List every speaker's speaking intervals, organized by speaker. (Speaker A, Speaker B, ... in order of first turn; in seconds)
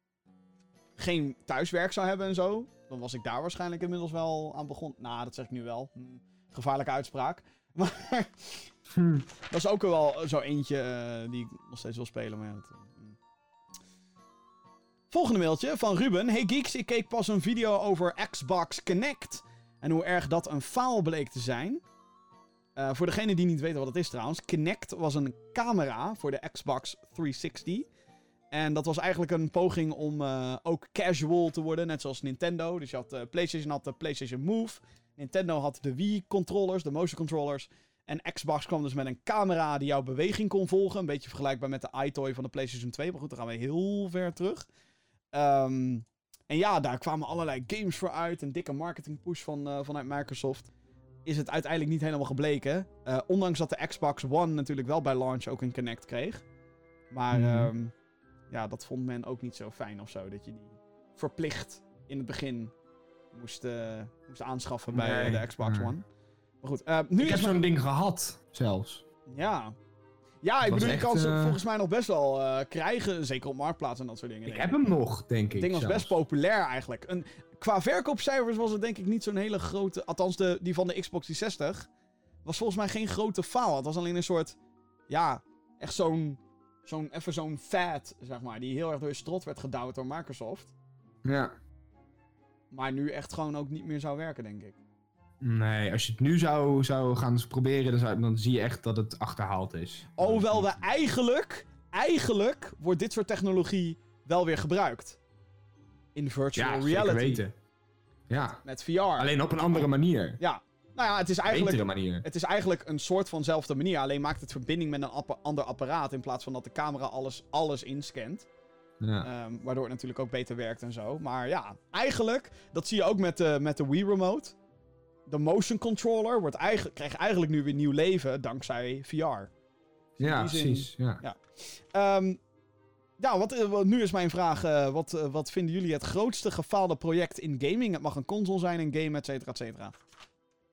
Speaker A: 1.0-8.7, 9.5-13.2, 15.1-21.8, 22.8-27.9, 28.5-44.7, 45.3-50.7, 51.3-56.5, 57.1-57.9, 58.5-62.7, 63.3-66.1, 66.6-67.6, 69.3-69.8, 70.4-74.7, 75.6-81.9, 82.5-84.6, 85.1-90.7, 92.7-94.8, 100.1-105.2, 106.2-107.4, 108.7-109.8, 110.4-118.5, 119.2-124.5, 125.3-129.5, 130.2-132.4, 133.2-140.0
Speaker B: 8.9-9.2, 57.3-57.7, 64.9-65.9, 67.2-69.0, 70.6-71.6, 74.5-76.1, 91.2-91.5, 95.4-100.8, 106.5-107.5, 108.3-108.6, 109.2-110.4, 111.5-112.2, 119.0-119.3, 130.2-131.2